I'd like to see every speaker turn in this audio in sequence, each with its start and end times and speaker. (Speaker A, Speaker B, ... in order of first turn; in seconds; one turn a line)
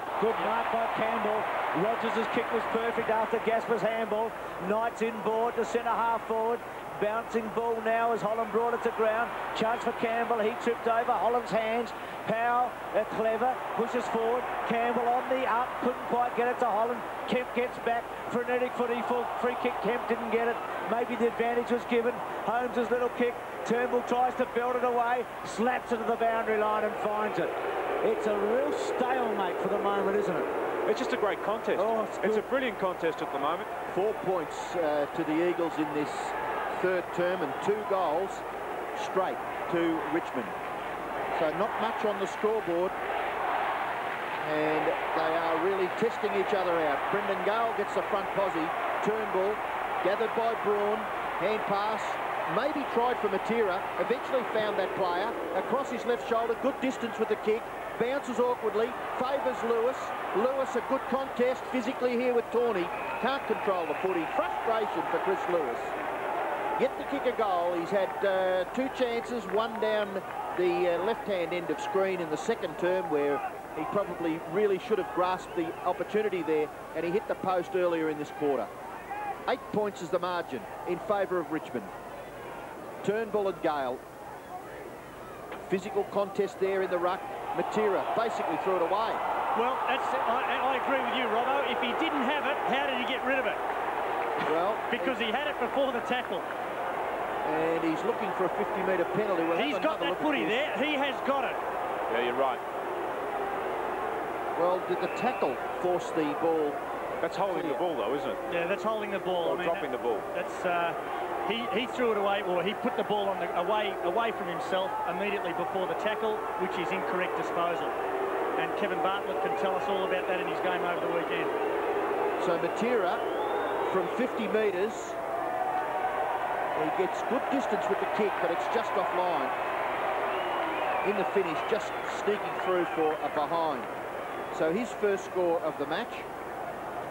Speaker A: 0.2-27.5
Speaker A: 28.0-30.5
Speaker B: 30.9-33.7
Speaker A: 31.8-32.4
Speaker C: 33.9-38.4
Speaker C: 38.9-40.5
Speaker C: 41.3-42.9
Speaker C: 44.4-65.9
Speaker C: 66.8-78.7
Speaker C: 79.5-81.9
Speaker C: 83.0-84.0
Speaker C: 85.7-89.2
Speaker D: 89.5-93.6
Speaker C: 94.4-95.2
Speaker D: 94.9-96.5
Speaker C: 97.4-100.7
Speaker D: 99.5-101.6
Speaker B: 102.1-102.6
Speaker C: 104.5-106.8
Speaker B: 107.2-108.4
Speaker C: 107.5-107.8
Speaker D: 108.5-117.9
Speaker B: 109.4-110.3
Speaker D: 118.5-121.5
Speaker C: 122.4-123.2
Speaker C: 123.9-125.2
Speaker C: 126.7-129.5
Speaker C: 131.0-133.9
Speaker C: 134.5-136.3